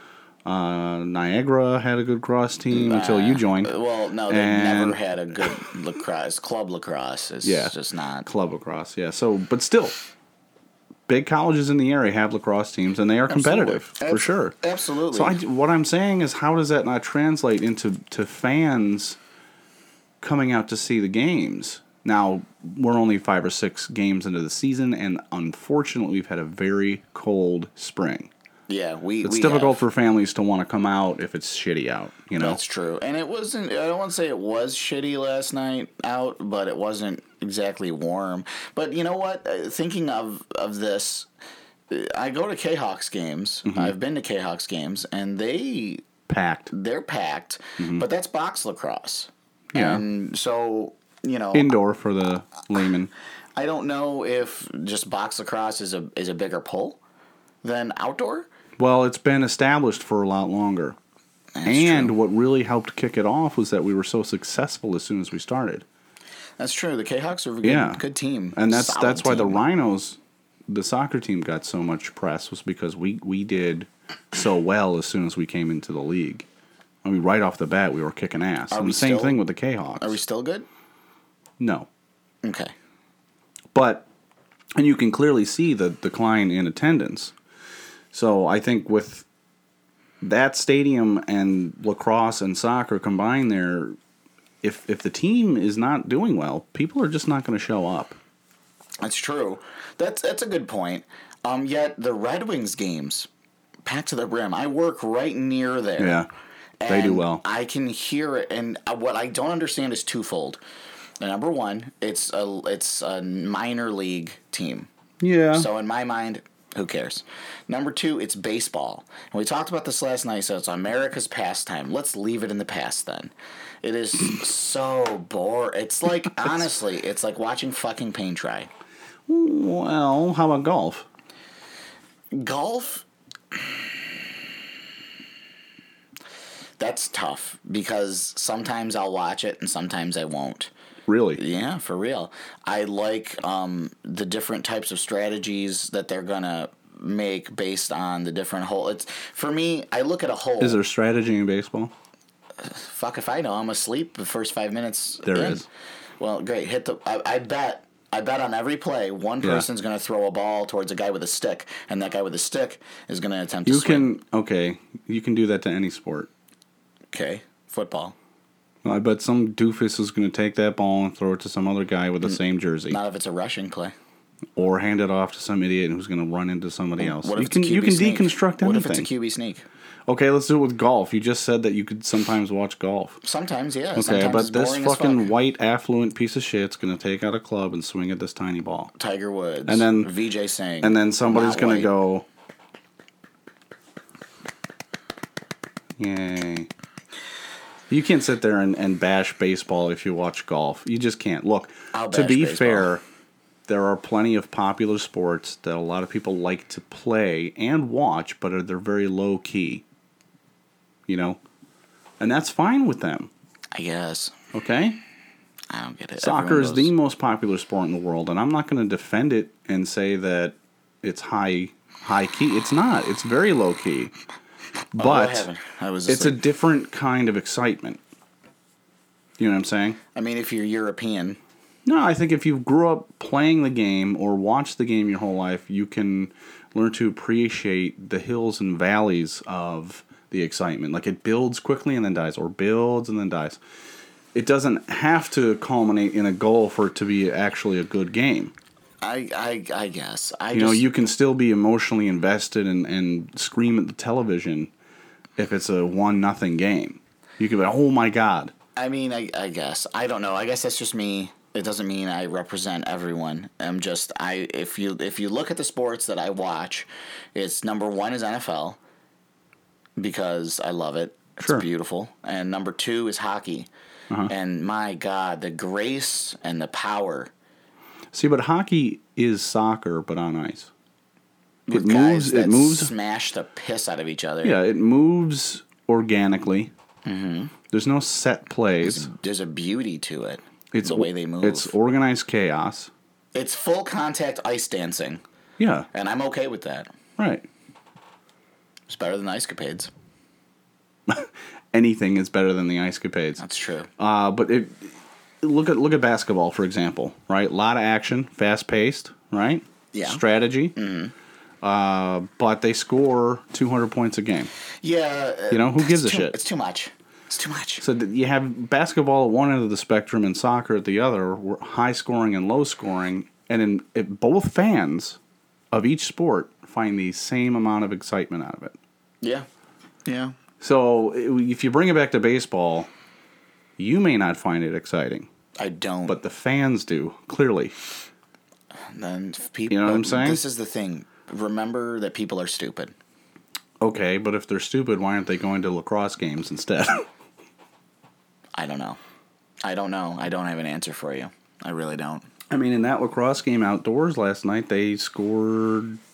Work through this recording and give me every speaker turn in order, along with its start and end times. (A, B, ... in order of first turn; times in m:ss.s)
0:00.4-0:03.7 A
0:02.7-0:08.3 B
0:04.3-0:05.0 A
0:07.4-0:07.7 A
0:08.2-0:10.0 A
0:11.1-0:14.5 A
0:13.3-0:15.4 B
0:15.1-0:19.2 A
0:20.2-0:28.3 A
0:28.7-0:29.8 B
0:29.2-0:32.6 A
0:32.4-0:41.3 B
0:41.9-0:46.0 B
0:43.7-0:43.9 A
0:46.3-0:46.7 A
0:46.7-0:51.7 B
0:47.8-0:48.0 A
0:49.7-0:50.0 A
0:51.5-0:53.1 A
0:53.6-0:57.0 B
0:57.6-0:58.5 B
0:58.8-1:01.0 A
1:01.5-1:02.1 B
1:01.6-1:05.8 A
1:06.6-1:09.6 B
1:07.6-1:08.0 A
1:08.5-1:16.5 A
1:17.0-1:20.2 A
1:18.7-1:19.4 B
1:20.0-1:20.7 B
1:21.6-1:21.9 A
1:22.4-1:22.7 B
1:23.7-1:24.1 A
1:24.8-1:27.3 A
1:28.1-1:29.2 A
1:30.2-1:34.0 A
1:34.6-1:38.2 A
1:39.0-1:43.3 B
1:43.8-1:46.2 B
1:46.0-1:46.3 A
1:46.8-1:50.6 B
1:46.9-1:47.4 A
1:51.2-1:54.9 B
1:55.2-1:55.7 A
1:55.5-2:08.7 B
2:09.3-2:11.0 A
2:12.3-2:13.0 B
2:16.8-2:20.7 B
2:21.1-2:21.4 A
2:21.4-2:30.8 B
2:30.6-2:31.9 A
2:32.6-2:35.6 B
2:35.2-2:35.6 A
2:36.2-2:44.1 B
2:43.6-2:46.3 A
2:47.1-2:48.1 B
2:48.8-2:53.0 A
2:52.9-2:53.9 B
2:54.6-2:59.1 A
2:57.0-2:59.6 B
3:00.1-3:03.2 A
3:03.2-3:05.3 B
3:03.9-3:08.9 A
3:09.0-3:11.9 B
3:09.7-3:10.1 A
3:10.8-3:12.2 A
3:16.0-3:16.7 A
3:17.9-3:23.0 A
3:21.9-3:22.9 B
3:23.7-3:29.8 A
3:31.1-3:31.4 A
3:32.2-3:33.3 A
3:33.7-3:34.4 B
3:34.5-3:35.0 A
3:35.7-3:36.9 B
3:36.2-3:44.1 A
3:44.9-3:45.5 A
3:45.0-3:46.4 B
3:46.1-3:48.0 A
3:49.4-3:50.0 A
3:50.1-3:51.4 B
3:51.8-4:03.6 A
4:04.3-4:08.5 A
4:09.0-4:10.8 B
4:10.5-4:14.7 A
4:15.4-4:18.5 A
4:18.8-4:28.8 B
4:30.0-4:33.7 B
4:34.2-4:37.3 B
4:38.1-4:40.7 A
4:41.7-4:44.6 B
4:41.7-4:42.9 A
4:44.4-4:46.7 A
4:47.0-4:47.5 B
4:47.7-4:49.1 A
4:48.8-4:51.7 B
4:50.7-4:52.9 A
4:53.3-4:55.2 B
4:55.6-4:55.9 A
4:55.9-4:56.9 B
4:57.2-4:57.5 A
4:58.9-4:59.9 B
5:01.1-5:03.4 A
5:03.4-5:03.9 B
5:04.0-5:10.7 A
5:09.9-5:10.2 B
5:10.7-5:11.1 B
5:11.6-5:14.5 A
5:14.8-5:17.8 B
5:15.5-5:16.4 A
5:17.8-5:25.2 A
5:25.7-5:28.8 A
5:30.0-5:30.3 B
5:30.6-5:32.9 A
5:33.8-5:35.3 A
5:35.6-5:36.2 B
5:36.1-5:37.8 A
5:38.9-5:42.9 B
5:39.7-5:40.4 A
5:43.8-5:47.1 A
5:48.6-5:49.0 B
5:49.6-5:52.2 B
5:52.5-5:56.0 A